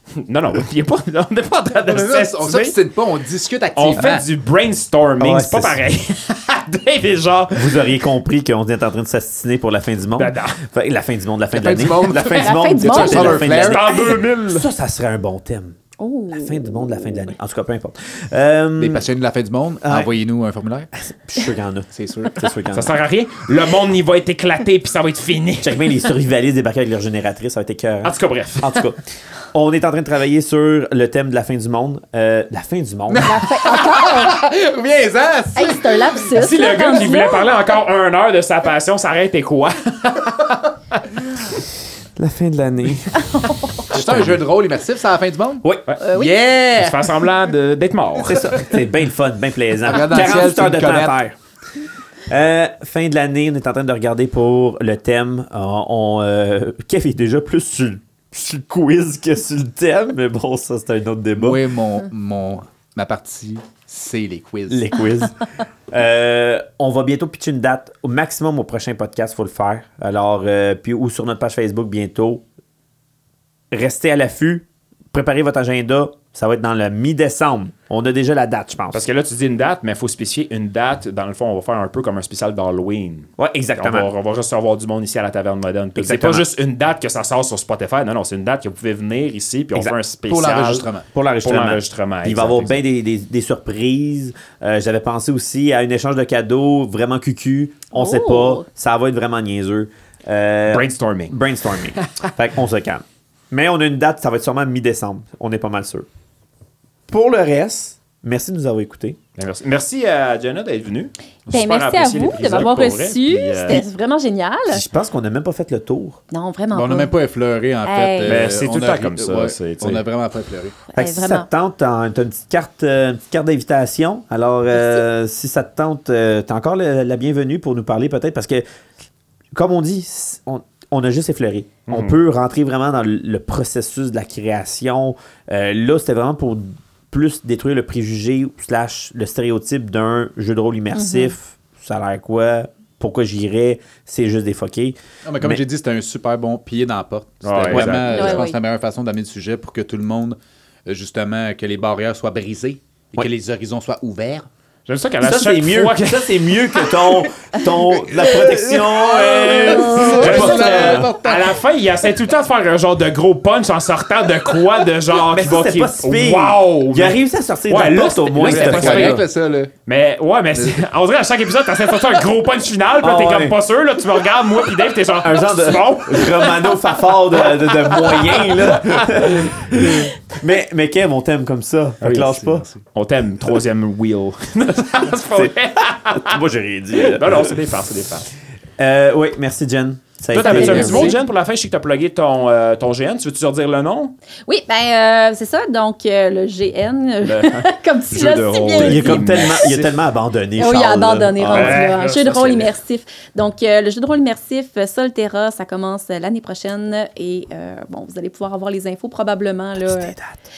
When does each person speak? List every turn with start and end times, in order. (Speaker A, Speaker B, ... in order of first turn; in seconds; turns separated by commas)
Speaker A: 0.2-2.8, Speaker B: 1.8-4.2, Speaker A: 3.8-8.0, Speaker C: 4.0-4.2, Speaker C: 5.2-5.8, Speaker C: 7.5-15.8, Speaker A: 10.2-10.6, Speaker B: 11.5-13.8, Speaker D: 12.2-13.6, Speaker A: 13.5-14.7, Speaker D: 16.0-17.3, Speaker C: 16.3-19.1, Speaker B: 18.8-20.9, Speaker C: 19.8-20.1, Speaker C: 20.9-22.9, Speaker B: 21.9-22.4, Speaker A: 22.7-25.9, Speaker C: 25.6-33.3, Speaker A: 28.0-28.9, Speaker B: 33.1-36.3, Speaker D: 33.2-34.4, Speaker D: 35.5-37.5, Speaker A: 36.3-41.0, Speaker C: 42.2-44.4, Speaker D: 43.2-43.9, Speaker B: 43.9-47.2, Speaker C: 45.6-45.9, Speaker D: 46.0-46.7, Speaker A: 46.6-48.6, Speaker B: 48.2-48.7, Speaker C: 48.3-51.4, Speaker B: 49.8-51.2, Speaker C: 52.3-61.6, Speaker B: 61.4-65.0, Speaker C: 64.7-72.5, Speaker C: 73.7-79.1, Speaker A: 78.9-90.9, Speaker C: 83.4-84.1, Speaker C: 86.0-86.5, Speaker B: 90.3-91.0, Speaker C: 91.1-106.1, Speaker A: 91.4-92.8, Speaker D: 97.9-98.7, Speaker A: 100.7-102.3, Speaker C: 107.1-109.2, Speaker A: 109.4-113.8, Speaker D: 111.5-114.8, Speaker C: 114.7-116.2, Speaker D: 116.3-117.1, Speaker B: 116.7-120.8, Speaker D: 117.8-118.5, Speaker A: 118.2-120.0, Speaker D: 120.9-121.5, Speaker C: 121.0-128.7, Speaker D: 124.7-125.0, Speaker C: 129.6-145.6, Speaker A: 131.9-132.2, Speaker D: 140.9-141.3, Speaker B: 145.2-154.5, Speaker A: 147.4-148.4, Speaker D: 147.7-148.6, Speaker A: 154.9-156.6, Speaker C: 155.2-161.1, Speaker B: 158.0-161.6, Speaker D: 159.5-160.4, Speaker A: 160.2-169.3, Speaker C: 165.3-169.2, Speaker B: 168.4-169.7, Speaker A: 169.9-176.7, Speaker B: 170.6-170.8, Speaker C: 173.0-173.6, Speaker C: 175.2-182.7, Speaker A: 178.6-179.3, Speaker A: 182.0-186.4, Speaker B: 182.1-182.8, Speaker C: 185.3-187.6, Speaker A: 186.9-188.3, Speaker C: 188.8-191.2, Speaker A: 190.3-194.2, Speaker D: 190.4-191.2, Speaker B: 190.5-191.1, Speaker D: 194.5-199.7, Speaker A: 197.2-200.0, Speaker C: 198.8-202.0, Speaker D: 200.6-210.2, Speaker A: 201.4-202.7, Speaker C: 209.8-210.4